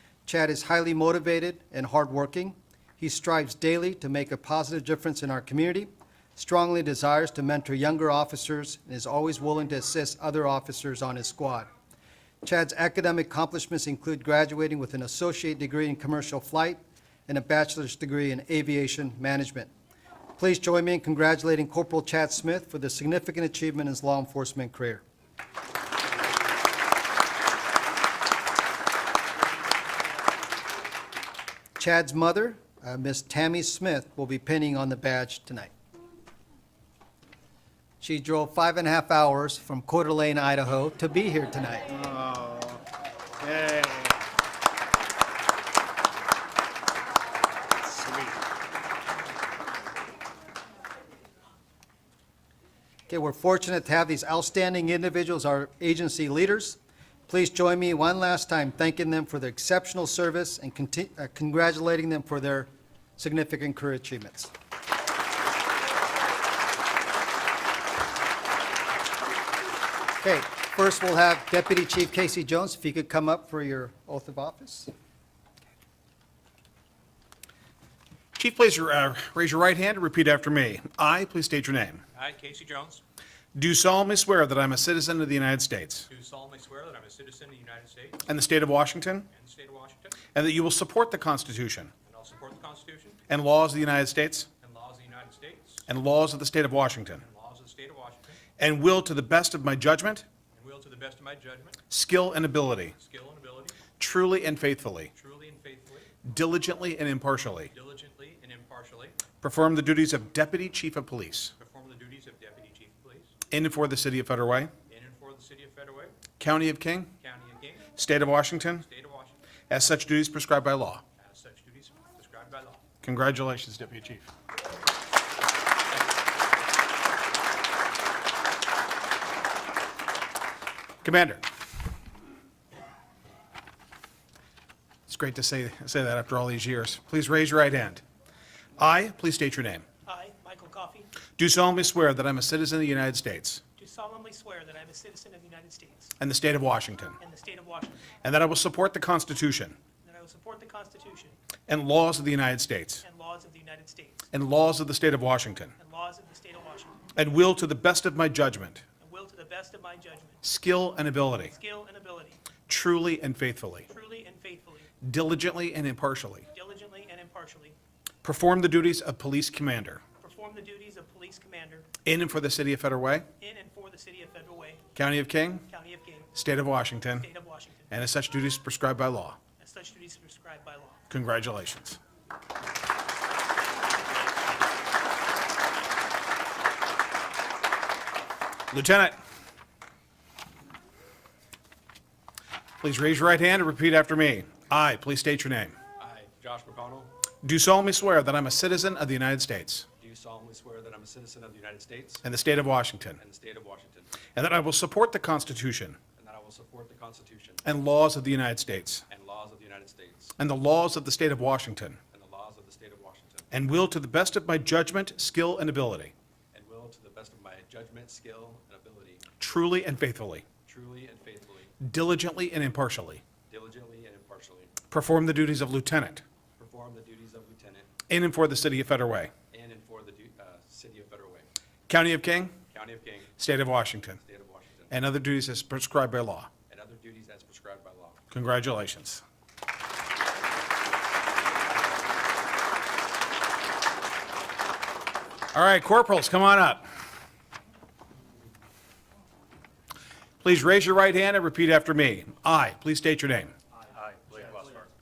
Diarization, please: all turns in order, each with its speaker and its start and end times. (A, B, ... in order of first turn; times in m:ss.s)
0:00.3-0:11.7 A
0:12.4-0:19.7 A
0:20.4-0:25.0 A
0:31.8-0:35.7 A
0:38.0-0:41.9 A
0:42.0-0:42.8 B
0:43.4-0:44.0 B
0:53.1-1:04.5 A
1:10.2-1:14.9 A
1:18.4-1:22.0 B
1:22.2-1:23.0 C
1:23.6-1:26.1 B
1:26.1-1:28.2 C
1:28.3-1:29.3 B
1:29.3-1:30.2 C
1:30.3-1:31.9 B
1:32.1-1:33.2 C
1:33.3-1:34.5 B
1:34.6-1:35.8 C
1:35.9-1:37.2 B
1:37.2-1:38.4 C
1:38.6-1:40.2 B
1:40.5-1:41.8 C
1:41.9-1:42.9 B
1:43.0-1:43.8 C
1:44.0-1:45.1 B
1:45.1-1:46.1 C
1:46.2-1:47.7 B
1:47.7-1:49.2 C
1:49.4-1:51.5 B
1:51.6-1:53.4 C
1:53.5-1:54.7 B
1:54.9-1:56.2 C
1:56.4-1:57.1 B
1:57.2-1:57.9 C
1:58.0-1:58.8 B
1:58.8-1:59.4 C
1:59.7-2:01.0 B
2:01.2-2:02.8 C
2:03.0-2:04.3 B
2:11.0-2:11.4 B
2:15.1-2:18.0 B
2:18.8-2:19.8 B
2:20.1-2:21.1 D
2:21.4-2:23.6 B
2:23.8-2:26.1 D
2:26.2-2:27.2 B
2:27.2-2:28.1 D
2:28.2-2:29.8 B
2:30.0-2:31.4 D
2:31.7-2:33.0 B
2:33.0-2:34.2 D
2:34.3-2:35.8 B
2:35.8-2:37.0 D
2:37.2-2:38.8 B
2:39.0-2:40.4 D
2:40.4-2:41.6 B
2:41.5-2:42.4 D
2:42.7-2:43.9 B
2:43.9-2:44.9 D
2:45.0-2:46.5 B
2:46.5-2:47.8 D
2:48.2-2:50.0 B
2:50.2-2:51.9 D
2:52.0-2:53.3 B
2:53.4-2:54.8 D
2:55.0-2:55.7 B
2:55.7-2:56.3 D
2:56.3-2:57.3 B
2:57.2-2:57.9 D
2:57.9-2:59.4 B
2:59.6-3:01.0 D
3:01.1-3:02.0 B
3:08.7-3:09.2 B
3:12.8-3:15.8 B
3:16.0-3:17.1 C
3:17.4-3:19.9 B
3:20.0-3:22.2 C
3:22.2-3:23.2 B
3:23.2-3:24.3 C
3:24.4-3:26.0 B
3:26.2-3:27.6 C
3:27.6-3:29.0 B
3:29.1-3:30.4 C
3:30.4-3:32.0 B
3:32.1-3:33.5 C
3:33.5-3:36.1 B
3:36.5-3:39.3 C
3:39.4-3:40.4 B
3:40.7-3:41.7 C
3:41.8-3:43.2 B
3:43.5-3:44.8 C
3:44.9-3:46.2 B
3:46.6-3:47.9 C
3:48.1-3:49.3 B
3:49.5-3:51.5 C
3:51.9-3:52.6 B
3:52.7-3:53.3 C
3:53.4-3:54.2 B
3:54.2-3:54.9 C
3:54.9-3:56.5 B
3:56.7-3:58.2 C
3:58.3-3:59.2 B
4:05.5-4:06.9 B
4:10.4-4:13.5 B
4:14.2-4:14.6 C